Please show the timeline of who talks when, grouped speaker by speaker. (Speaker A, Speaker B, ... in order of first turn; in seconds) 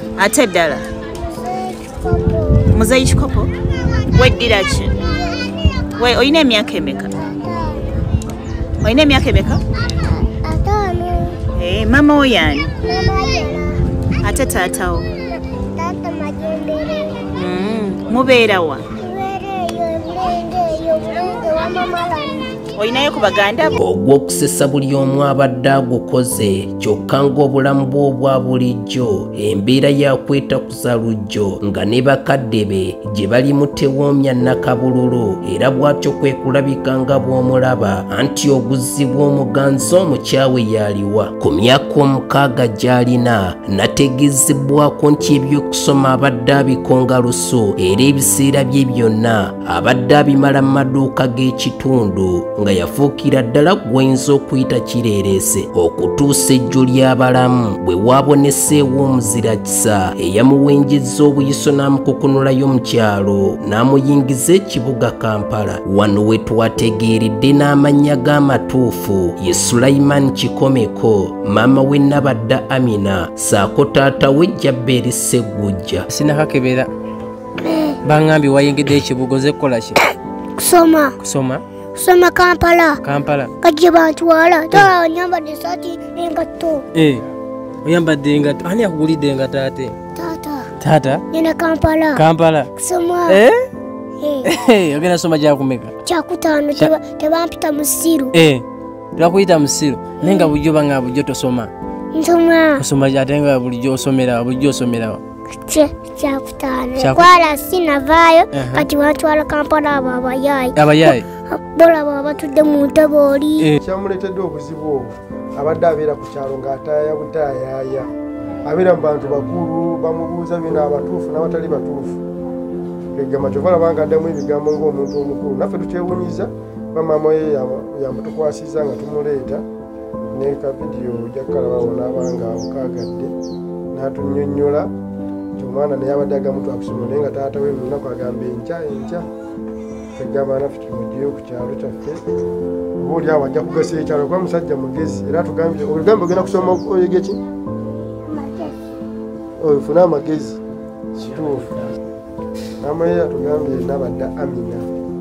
Speaker A: 0.2-0.8, 2.7-3.5, 4.2-4.9, 6.0-7.1, 8.8-9.6, 11.6-12.7, 14.2-15.0, 17.4-18.8, 22.8-23.7
Speaker B: 1.1-2.8, 3.9-4.3, 4.9-6.1, 7.1-8.0, 10.0-11.4, 12.8-13.8, 15.5-17.3, 18.9-22.5, 77.6-78.0, 80.6-81.2, 82.0-83.0, 83.6-86.8, 90.2-90.7, 91.3-92.2, 92.8-93.4, 94.2-94.5, 96.1-98.3, 100.2-100.5, 102.1-102.8, 105.7-113.7, 148.3-148.8
Speaker C: 23.7-76.1
Speaker D: 76.1-76.9, 78.0-80.0, 81.2-81.6, 83.0-83.5, 86.9-87.2, 87.8-90.0, 90.8-91.2, 92.2-92.7, 93.3-93.7, 94.4-95.9, 98.3-98.7, 99.2-101.7, 102.8-105.2, 107.0-107.4, 108.5-108.9, 110.8-111.3
Speaker E: 113.8-118.1, 118.7-122.2, 123.2-129.6, 130.3-133.3, 133.9-134.9, 135.6-139.3, 140.2-142.2, 143.0-147.4, 149.6-150.6, 151.2-151.7, 152.8-154.9